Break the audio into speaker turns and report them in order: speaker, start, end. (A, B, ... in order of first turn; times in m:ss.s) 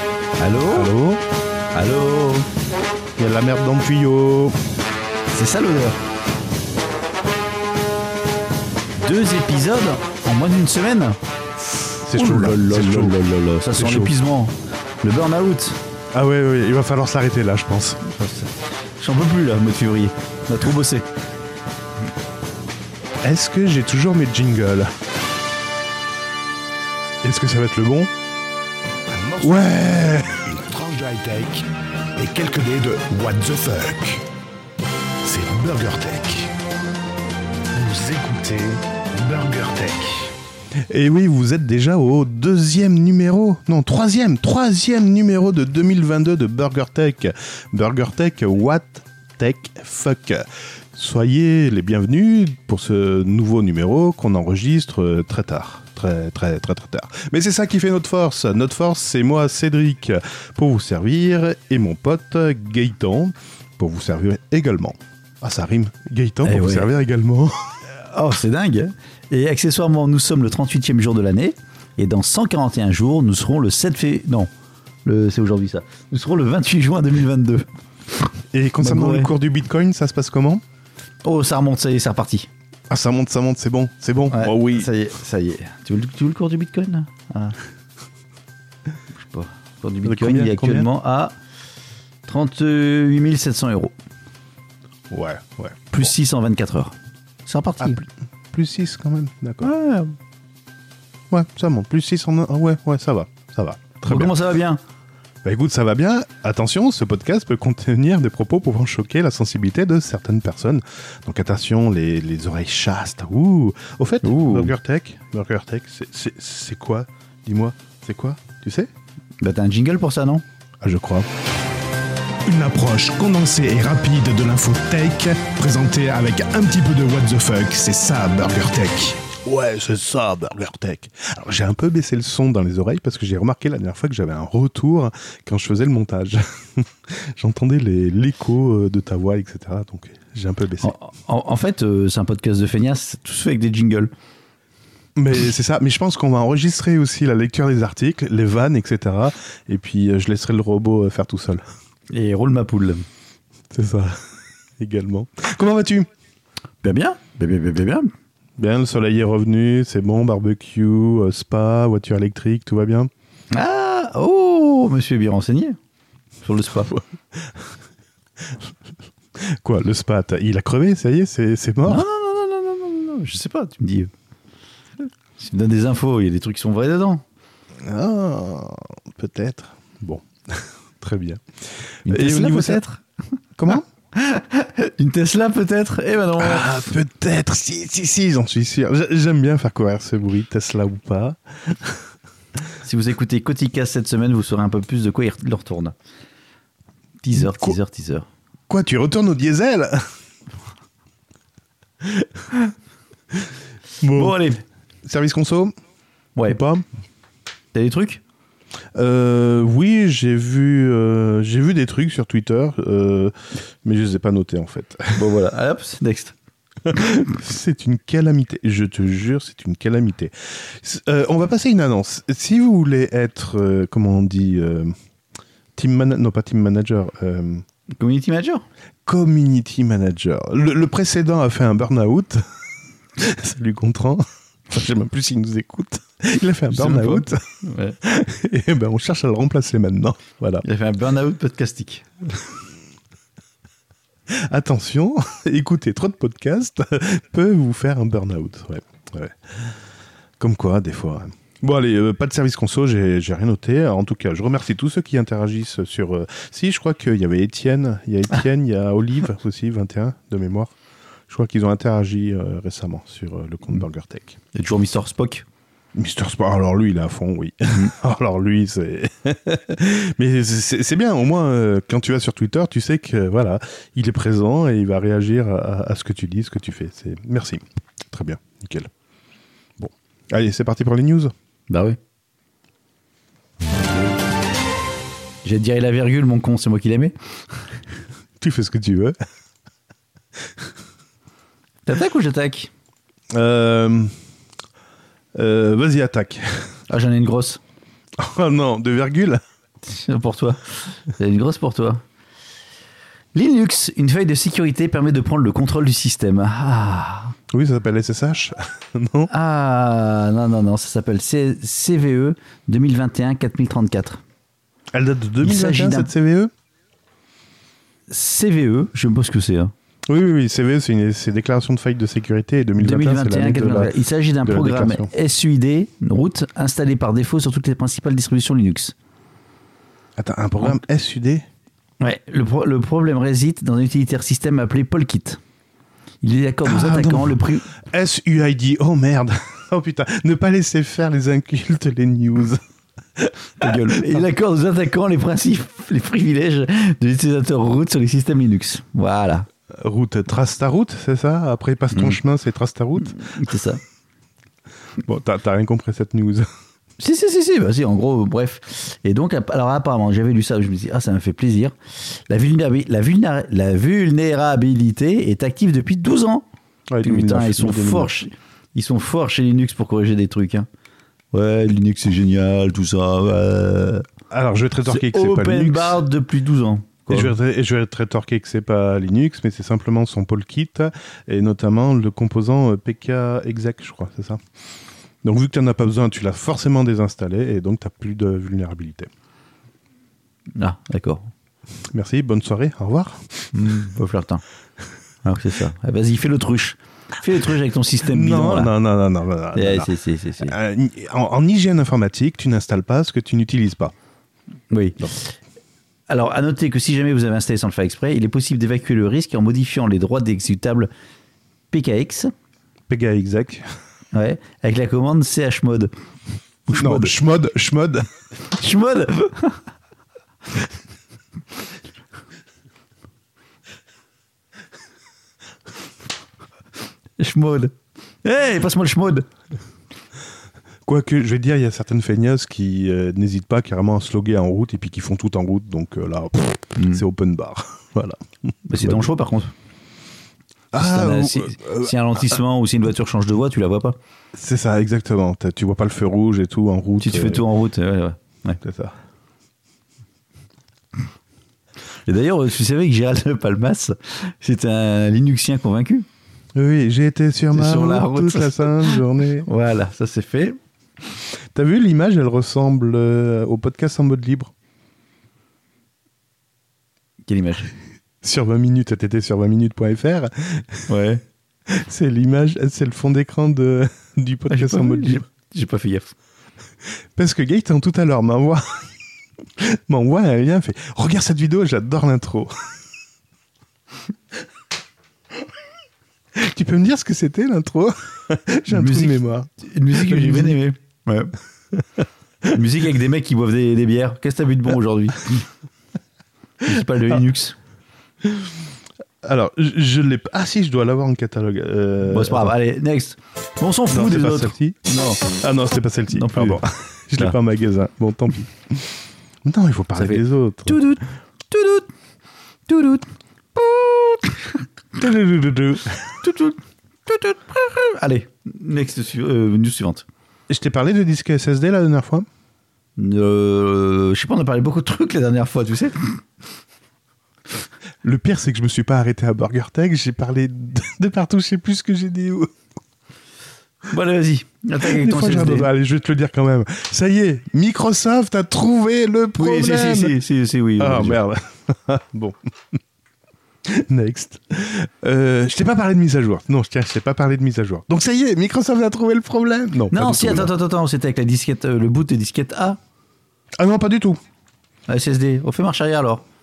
0:00.4-0:00.9 A
0:00.7-0:01.2 B
0:01.7-0:02.5 A
0:03.2-0:04.6 B
0:05.3-0:06.0 A
0:09.0-0:11.2 A
0:12.0-0:14.1 B
0:12.1-0:15.8 A
0:16.1-0:18.0 B
0:18.0-0:21.1 A
0:23.2-0:24.9 B
0:27.2-0:28.1 B
0:29.1-0:29.6 C
0:29.4-0:30.5 B
0:30.5-0:31.6 C
0:32.2-0:34.2 C
0:35.2-0:36.5 C
0:37.7-0:40.3 C
0:40.9-1:07.8 B
1:06.4-1:06.9 A
1:07.9-1:14.5 A
1:15.0-1:19.3 A
1:18.5-1:20.6 B
1:21.2-1:22.5 A
1:22.9-1:24.9 B
1:24.3-1:27.6 A
1:29.2-1:31.3 A
1:30.0-1:30.9 B
1:32.2-1:33.9 A
1:35.1-1:35.9 B
1:35.9-1:36.9 A
1:37.4-1:38.0 A
1:37.8-1:39.7 B
1:39.6-1:40.2 A
1:41.3-1:44.3 B
1:44.1-1:44.8 A
1:45.4-1:58.9 B
1:54.2-1:54.7 A
1:59.4-2:00.4 A
2:00.8-2:01.3 B
2:02.4-2:20.9 B
2:20.8-2:24.1 A
2:25.2-2:31.6 B
2:32.1-2:33.0 A
2:33.7-2:36.1 B
2:36.8-2:38.1 A
2:38.6-2:43.1 B
2:43.5-2:45.8 A
2:46.4-2:46.9 A
2:46.9-2:47.7 B
2:48.4-2:48.7 B
2:49.4-2:52.0 B
2:51.8-2:54.1 A
2:55.4-2:57.2 A
2:57.8-3:02.8 B
3:02.0-3:03.0 A
3:03.6-3:03.8 B
3:04.1-3:06.9 A
3:06.4-3:12.1 B
3:12.8-3:15.9 A
3:17.2-3:18.3 A
3:17.4-3:17.8 B
3:18.7-3:20.1 B
3:22.0-3:22.3 B
3:24.0-3:24.4 B
3:24.1-3:24.6 A
3:25.0-3:25.7 B
3:26.5-3:26.8 B
3:27.7-3:28.2 A
3:28.9-3:35.2 B
3:35.1-3:36.3 A
3:36.8-3:44.9 B
3:45.8-3:47.6 B
3:47.9-3:48.6 A
3:49.0-3:52.4 B
3:53.2-3:57.4 B
3:56.7-3:58.0 A
3:58.0-4:00.6 B
4:00.6-4:02.4 A
4:04.3-4:09.7 B
4:10.4-4:20.7 B
4:21.3-4:24.4 B
4:24.5-4:25.4 A
4:25.9-4:38.9 B
4:39.8-4:41.3 B
4:41.7-4:42.0 A
4:45.4-4:47.7 A
4:48.4-4:49.1 B
4:51.8-4:52.7 A
4:53.3-4:54.1 B
4:55.3-4:56.7 B
4:56.9-4:57.6 A
4:58.2-4:59.4 B
4:59.8-5:02.0 A
5:03.3-5:07.4 A
5:07.5-5:09.3 B
5:09.3-5:14.2 A
5:14.9-5:16.5 B
5:15.4-5:16.1 A
5:18.1-5:19.7 A
5:20.1-5:25.1 B
5:22.8-5:28.9 A
5:30.2-5:31.4 B
5:32.0-5:35.4 A
5:36.2-5:37.7 A
5:36.6-5:42.6 B
5:43.2-5:44.3 B
5:43.6-5:49.5 A
5:49.8-5:53.2 B
5:51.9-5:52.2 A
5:53.0-5:53.8 A
5:55.0-5:56.5 B
5:57.0-6:06.4 A
6:06.9-6:08.1 B
6:07.0-6:10.7 A
6:11.3-6:14.1 A
6:14.3-6:16.0 B
6:14.9-6:17.3 A
6:17.1-6:24.4 B
6:25.2-6:29.1 B
6:30.6-6:31.3 A
6:31.9-6:33.5 B
6:33.5-6:34.4 A
6:35.2-6:38.7 A
6:38.0-6:43.9 B
6:39.5-6:40.6 A
6:44.7-6:45.3 A
6:46.1-6:50.9 A
6:51.7-6:52.3 A
6:52.9-6:53.6 B
6:54.1-6:55.9 A
6:56.7-6:57.1 A
6:56.7-6:58.1 B
6:58.5-6:59.6 A
7:07.2-7:09.3 A
7:10.8-7:19.1 B
7:16.8-7:17.0 A
7:18.7-7:19.5 A
7:20.7-7:22.2 B
7:20.7-7:24.0 A
7:24.3-7:27.4 B
7:27.0-7:28.6 A
7:28.6-7:29.0 B
7:32.0-7:36.0 A
7:36.5-7:39.5 B
7:37.5-7:40.6 A
7:41.5-7:44.5 B
7:47.2-7:47.7 A
7:48.2-7:50.9 B
7:50.9-7:51.2 A
7:51.7-7:55.2 B
7:54.5-7:56.1 A
7:57.2-7:58.9 B
7:59.6-8:02.5 B
8:06.3-8:10.6 B
8:08.7-8:11.3 A
8:12.5-8:15.5 A
8:16.6-8:17.6 A
8:18.2-8:18.6 B
8:19.2-8:22.5 B
8:22.0-8:25.3 A
8:23.9-8:30.8 B
8:26.1-8:26.6 A
8:29.9-8:31.9 A
8:32.7-8:34.6 A
8:34.9-8:36.2 B
8:36.2-8:40.0 A
8:40.5-8:42.3 B
8:43.0-8:46.2 A
8:48.0-8:52.5 B
8:53.9-8:55.7 A
8:54.8-9:00.2 B
8:59.4-9:01.2 A
9:00.8-9:02.8 B
9:03.6-9:10.5 B
9:09.9-9:12.8 A
9:13.6-9:14.2 B
9:14.9-9:16.2 A